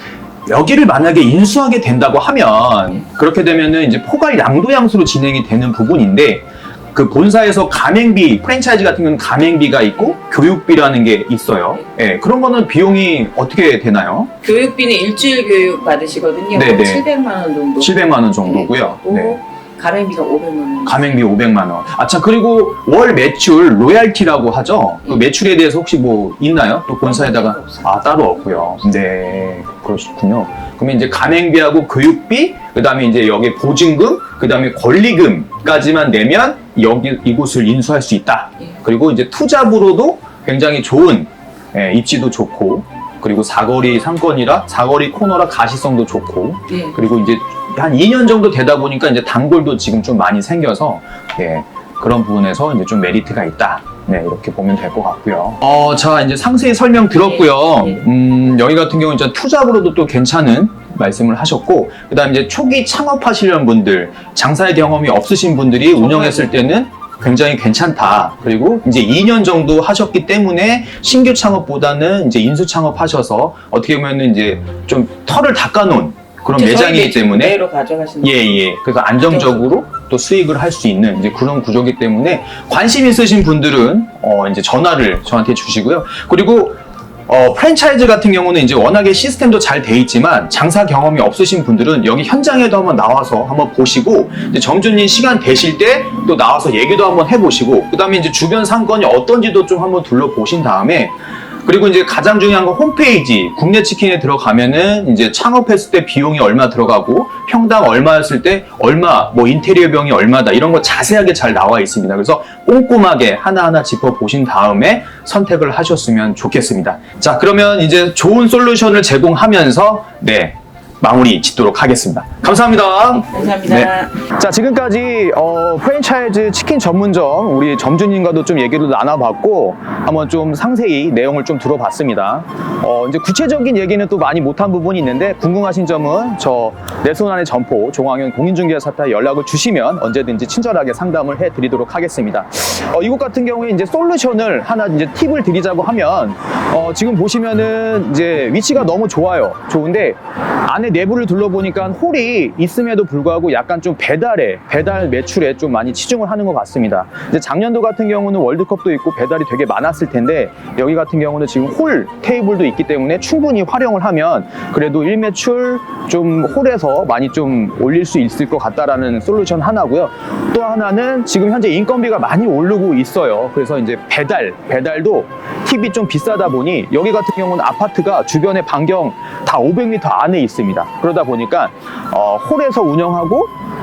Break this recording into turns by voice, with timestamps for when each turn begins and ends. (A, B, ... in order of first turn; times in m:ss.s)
0:00.5-0:14.3 A
0:14.4-0:21.0 B
0:16.5-0:17.0 A
0:17.8-0:19.4 A
0:20.8-1:17.6 A
0:27.0-0:28.7 B
0:46.7-0:47.0 B
0:57.2-0:58.0 B
1:05.9-1:06.5 B
1:16.5-1:18.6 B
1:18.2-1:41.1 A
1:19.2-1:19.7 B
1:41.6-3:03.5 A
2:03.2-2:04.1 B